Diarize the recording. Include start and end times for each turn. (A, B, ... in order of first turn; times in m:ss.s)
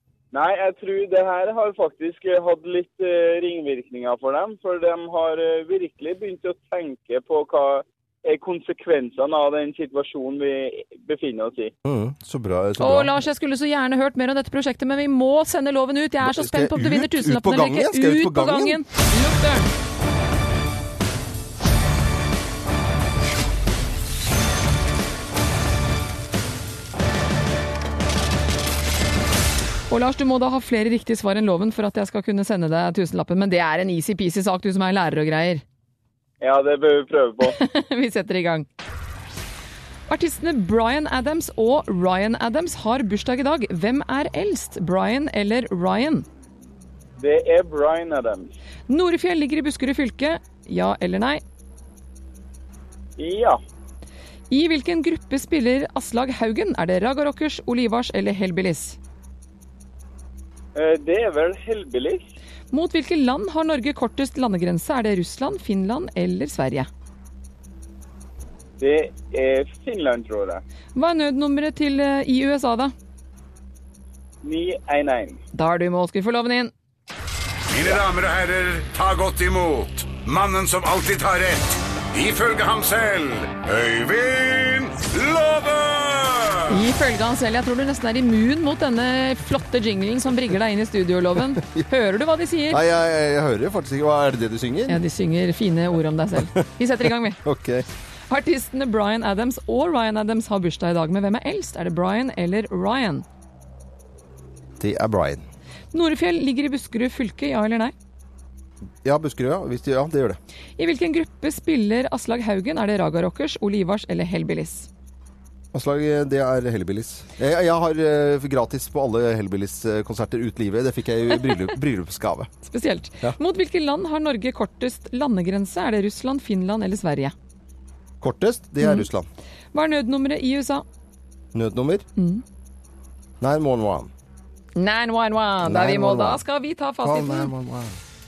0:00.3-0:11.7 A
0:11.8-0:13.1 B
0:12.8-0:19.7 C
0:16.2-0:18.8 B
0:29.9-0:35.6 C
0:36.4-0:37.6 A
0:37.4-0:38.7 C
0:40.1-0:46.2 C
0:47.2-0:48.5 A
0:48.9-0:51.4 C
0:53.2-0:53.6 A
0:54.5-0:59.0 C
1:00.7-1:02.2 A
1:02.7-1:06.9 C
1:08.8-1:10.6 A
1:10.9-1:12.9 C
1:14.4-1:15.4 A
1:15.5-1:16.7 C
1:17.7-1:26.7 D
1:26.7-1:32.8 C
1:31.6-1:31.8 B
1:32.7-1:35.0 B
1:34.9-1:37.4 C
1:37.4-1:37.9 B
1:38.3-1:43.2 C
1:44.8-1:45.4 B
1:45.9-1:47.9 C
1:49.0-1:50.4 B
1:50.8-1:54.9 C
1:55.7-2:02.5 B
2:02.7-2:07.3 C
2:08.2-2:09.3 B
2:08.8-2:09.1 C
2:09.7-2:10.8 C
2:11.5-2:12.1 B
2:12.2-2:12.4 C
2:13.4-2:14.1 B
2:14.8-2:17.5 C
2:15.6-2:16.4 B
2:17.0-2:18.0 B